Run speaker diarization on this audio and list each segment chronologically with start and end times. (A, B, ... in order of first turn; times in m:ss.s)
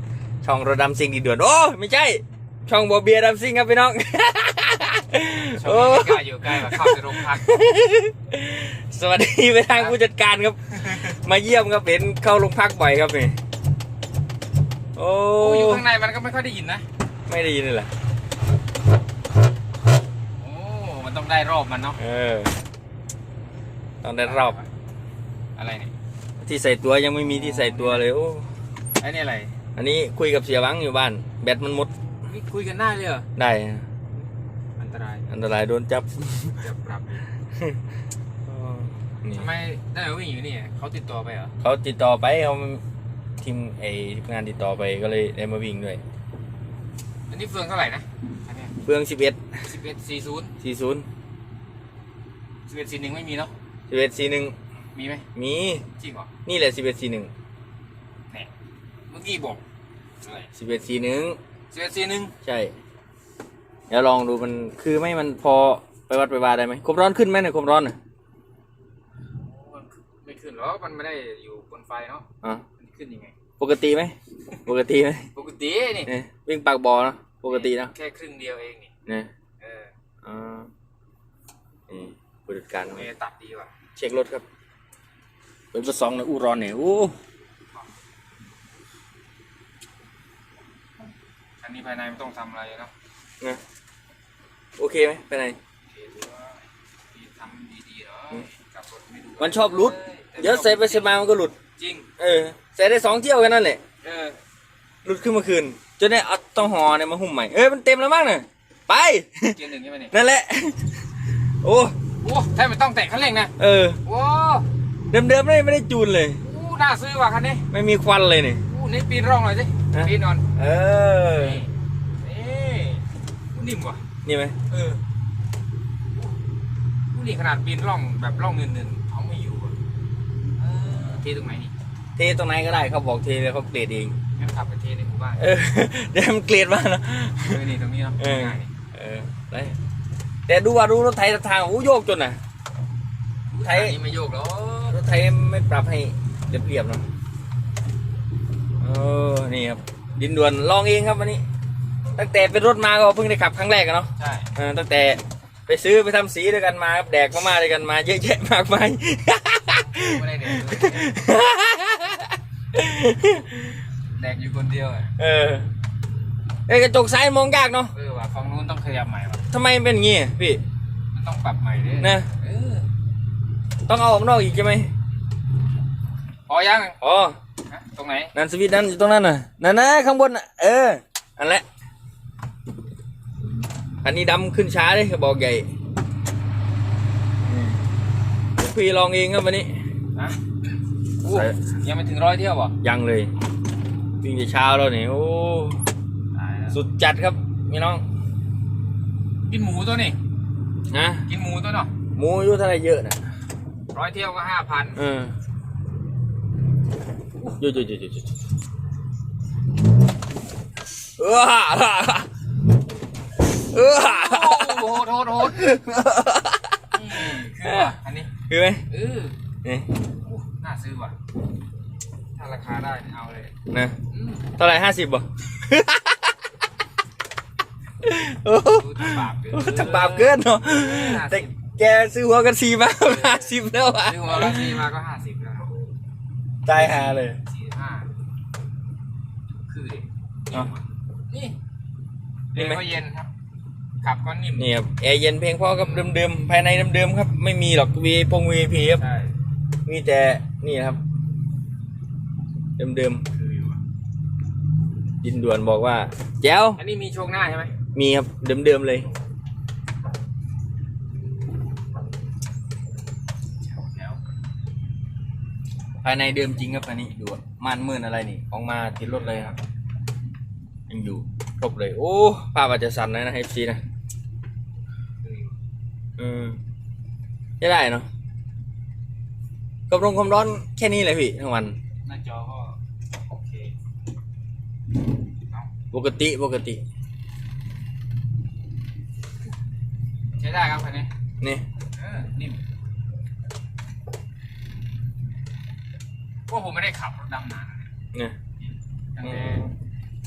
0:00.4-0:13.4 A
0:05.5-0:07.5 B
0:15.0-0:15.8 A
0:15.4-0:16.8 B
0:17.3-0:17.9 A
0:20.4-0:22.0 B
0:22.0-0:22.5 A
0:24.0-0:24.6 A
0:24.2-0:24.7 B
0:25.6-0:25.9 B
0:26.4-0:28.5 A
0:27.2-0:28.1 B
0:29.0-0:29.6 B
0:29.8-0:31.9 A
0:32.2-0:33.3 B
0:33.4-0:33.9 A
0:34.8-0:35.3 B
0:35.3-0:36.6 A
0:36.4-0:37.2 B
0:38.5-0:39.5 A
0:39.3-0:41.5 B
0:41.6-0:42.8 A
0:43.4-0:46.0 A
0:47.3-0:48.8 B
0:48.8-0:49.6 A
0:49.6-0:50.5 B
0:50.6-0:51.1 A
0:52.7-0:53.5 B
0:53.9-0:54.6 A
0:55.0-0:55.3 B
0:55.4-0:55.9 A
0:56.0-0:56.3 B
0:56.4-0:57.3 A
0:59.1-0:59.6 B
1:00.2-1:00.5 B
1:00.5-1:01.4 A
1:01.7-1:02.3 B
1:02.4-1:02.7 A
1:03.9-1:08.0 A
1:09.4-1:12.3 B
1:12.8-1:13.4 B
1:13.6-1:15.3 A
1:15.4-1:16.1 B
1:16.1-1:17.9 A
1:17.5-1:18.9 B
1:19.6-1:19.9 B
1:20.2-1:20.7 A
1:21.9-1:23.1 A
1:22.9-1:23.7 B
1:24.0-1:24.4 A
1:25.7-1:27.2 A
1:31.6-1:32.9 B
1:34.8-1:35.6 A
1:35.9-1:41.2 B
1:39.4-1:41.5 A
1:41.8-1:42.1 B
1:42.2-1:43.8 A
1:44.0-1:44.4 B
1:45.0-1:49.6 A
1:49.6-1:50.2 B
1:50.1-1:51.0 A
1:51.6-1:52.0 A
1:52.2-1:53.5 B
1:53.6-1:54.0 A
1:54.0-1:54.7 B
1:55.1-1:56.4 A
1:56.4-1:57.7 B
1:57.7-1:58.6 A
1:58.7-2:00.5 B
1:59.9-2:01.6 A
2:01.4-2:01.7 B
2:02.2-2:04.0 B
2:04.2-2:04.6 A
2:04.7-2:05.0 B
2:07.1-2:09.8 B
2:10.6-2:11.7 B
2:12.2-2:14.2 A
2:14.4-2:15.4 B
2:15.4-2:17.6 A
2:17.4-2:18.7 B
2:18.2-2:19.8 A
2:20.5-2:22.4 A
2:23.5-2:25.0 B
2:23.6-2:24.0 A
2:24.9-2:27.1 A
2:28.8-2:31.4 A
2:32.2-2:43.6 A
2:34.2-2:34.5 B
2:39.9-2:41.1 B
2:44.2-2:45.1 B
2:45.2-2:45.7 A
2:46.7-2:47.9 A
2:47.9-2:49.4 B
2:49.5-2:50.6 A
2:51.1-2:52.9 B
2:52.0-2:52.3 A
2:53.9-2:54.9 A
2:56.5-2:57.0 B
2:57.0-2:57.4 A
2:57.7-2:58.3 B
2:58.4-3:01.6 A
3:04.0-3:05.7 A
3:07.4-3:07.8 A
3:08.6-3:09.8 A
3:10.2-3:10.4 B
3:11.2-3:11.6 A
3:11.2-3:12.8 B
3:12.8-3:13.3 A
3:14.2-3:15.8 A
3:16.3-3:16.8 B
3:16.7-3:18.0 A
3:19.5-3:20.2 B
3:20.9-3:21.3 A
3:21.3-3:21.9 B
3:22.1-3:23.2 A
3:23.9-3:25.0 B
3:25.0-3:25.3 A
3:27.6-3:28.3 A
3:31.2-3:32.3 A
3:33.7-3:38.9 A
3:33.8-3:35.7 B
3:36.9-3:38.3 B
3:38.9-3:39.4 B
3:39.6-3:39.9 A
3:40.2-3:41.2 B
3:42.4-3:43.5 B
3:43.7-3:46.3 A
3:44.1-3:44.5 B
3:48.0-3:54.8 A
3:48.6-3:51.5 B
3:53.0-3:53.5 B
3:54.0-3:55.8 B
3:56.6-3:57.4 A
3:56.7-3:58.1 B
3:59.7-4:01.6 B
4:02.5-4:03.3 B
4:02.6-4:02.8 A
4:04.0-4:04.7 B
4:04.6-4:09.0 A
4:05.8-4:06.1 B
4:09.0-4:09.3 B
4:09.9-4:11.0 A
4:12.8-4:13.2 A
4:13.3-4:13.8 B
4:15.2-4:16.8 A
4:16.8-4:17.7 B
4:17.9-4:19.1 A
4:23.6-4:24.2 B
4:26.0-4:29.6 A
4:30.9-4:33.8 A
4:35.2-4:35.5 B
4:36.2-4:36.6 A
4:37.6-4:38.1 A
4:39.9-4:41.8 A
4:42.0-4:42.8 B
4:43.3-4:43.7 B
4:45.9-4:46.8 A
4:50.4-4:51.1 B
4:52.0-4:52.6 B
4:56.5-4:57.9 B
4:59.2-4:59.7 B
4:59.2-4:59.7 A